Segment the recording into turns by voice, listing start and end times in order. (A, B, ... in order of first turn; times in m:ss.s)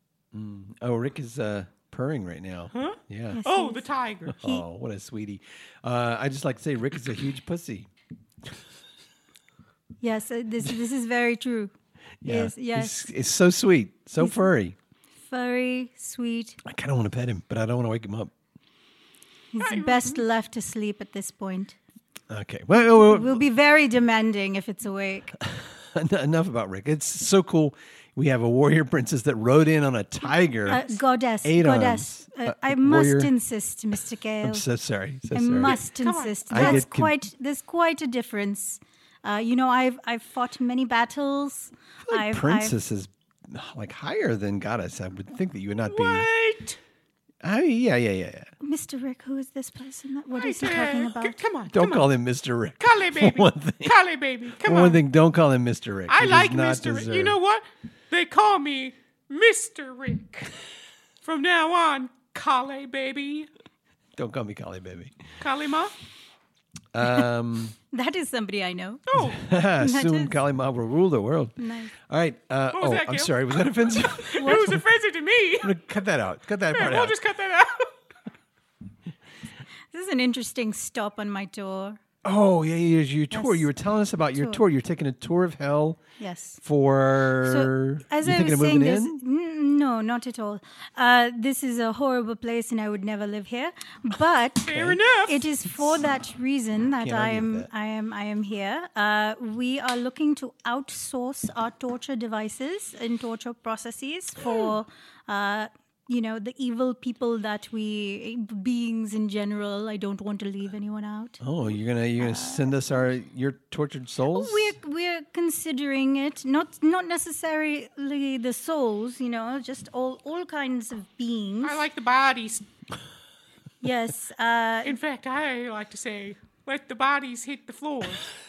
0:00.3-0:03.4 A
0:02.7-0:04.4 B
0:03.3-0:03.9 C
0:04.3-0:07.9 A
0:10.0-0:11.7 C
0:12.2-0:14.8 A
0:12.3-0:13.0 C
0:14.2-0:14.5 C
0:15.2-0:16.6 C
0:16.6-0:18.3 A
0:19.5-0:21.8 C
0:19.6-0:20.2 B
0:22.3-0:23.4 A
0:23.0-0:25.4 C
0:25.4-0:30.8 A
0:30.7-0:34.6 C
0:31.4-0:33.3 A
0:34.4-0:35.8 A
0:35.3-0:42.8 C
0:35.6-0:36.8 B
0:36.5-0:37.1 A
0:42.1-0:46.3 A
0:45.9-0:46.8 B
0:47.4-0:48.5 A
0:48.6-0:51.4 C
0:50.3-0:52.1 B
0:51.7-0:54.0 A
0:52.8-0:55.0 B
0:54.6-0:57.4 A
0:56.1-1:00.6 B
1:01.2-1:03.5 B
1:04.2-1:05.2 A
1:05.4-1:06.0 B
1:06.9-1:07.8 A
1:07.9-1:09.0 C
1:09.1-1:09.4 B
1:09.2-1:14.8 A
1:09.8-1:10.4 C
1:11.6-1:11.9 C
1:12.7-1:15.7 B
1:14.4-1:14.8 C
1:15.6-1:17.2 A
1:16.7-1:18.0 B
1:19.9-1:22.0 C
1:22.2-1:26.0 A
1:23.3-1:23.7 C
1:24.4-1:24.6 C
1:26.2-1:26.6 C
1:26.6-1:29.2 A
1:27.4-1:51.4 C
1:34.6-1:35.5 B
1:34.7-1:35.0 A
1:37.0-1:37.7 A
1:44.4-1:44.7 B
1:51.4-1:54.8 A
1:52.2-1:52.8 C
1:54.3-2:01.8 C
2:01.6-2:02.7 B
2:03.8-2:05.0 C
2:04.8-2:08.3 B